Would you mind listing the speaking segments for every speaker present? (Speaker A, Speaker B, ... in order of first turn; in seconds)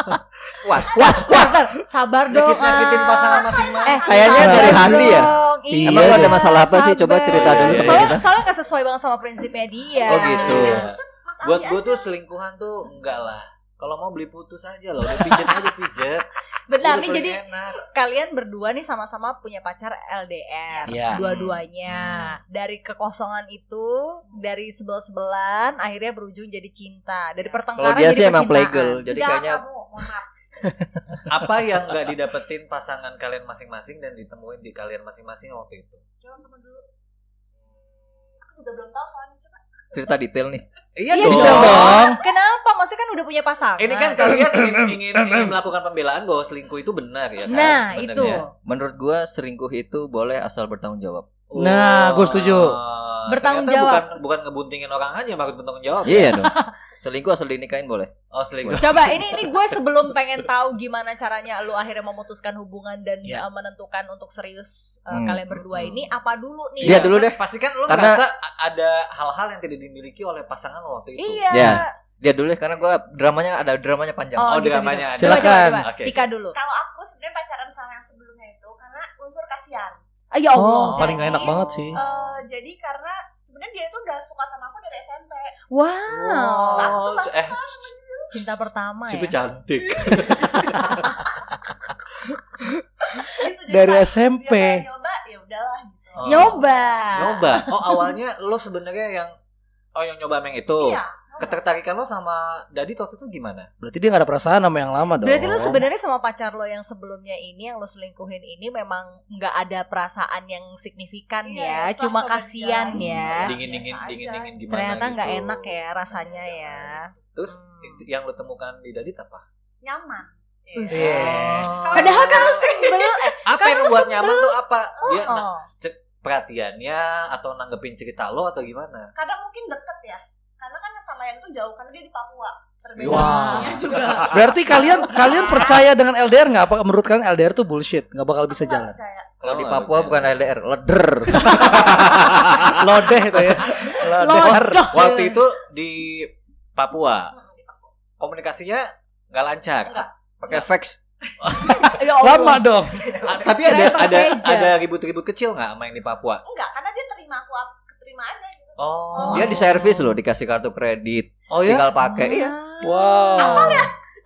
Speaker A: 0.6-1.6, 4.0-5.3, 5.8-8.3, 10.1-10.8, 27.8-29.6, 39.9-40.6, 48.6-51.3, 56.0-58.1, 65.1-65.4, 66.8-68.2, 71.5-74.7, 139.4-141.8, 150.4-151.0, 159.3-162.5
Speaker B: 1.2-10.9, 16.7-29.1, 41.1-44.4, 47.5-48.5, 53.3-54.1, 58.8-67.2, 71.2-71.9, 74.4-76.6, 80.3-81.5, 85.7-87.0, 88.3-89.3, 96.2-97.8, 105.2-113.5, 114.7-118.0, 120.7-125.7, 143.7-145.4, 151.7-154.7, 162.0-163.8
Speaker C: 2.3-5.3, 7.3-8.2, 10.1-17.9, 21.1-22.4, 31.3-36.0, 41.0-42.1, 43.8-48.5, 51.5-56.4, 58.3-59.6, 65.7-66.1, 66.8-71.8, 74.5-76.2, 80.8-81.2, 86.1-87.9, 89.1-91.2, 96.2-99.3, 100.0-103.7, 113.0-119.4, 120.9-122.6, 123.5-129.1, 133.0-134.6, 139.4-140.4, 141.4-143.7, 144.9-147.3, 148.2-150.7, 151.4-152.0, 153.2-156.4, 158.8-159.6, 161.5-161.9
Speaker D: 2.7-5.3, 10.0-12.1, 29.1-30.8, 36.2-36.8, 38.4-39.6, 76.5-80.0, 80.9-85.5, 86.7-88.3, 90.0-91.2, 93.2-97.6, 100.8-101.7, 111.5-114.5, 119.8-123.4, 129.2-135.9, 138.5-139.3, 141.6-141.9, 147.3-147.9, 151.3-152.0, 153.0-153.4, 156.5-159.7, 163.4-163.9
Speaker E: 4.4-5.2, 5.7-6.4, 20.9-21.2, 30.8-31.2, 41.2-42.2, 44.3-45.5, 51.5-52.8, 75.2-75.9, 80.5-82.0, 93.7-94.8, 103.8-105.8, 120.9-122.0, 133.1-139.0, 142.7-144.9, 152.2-153.1, 162.8-163.9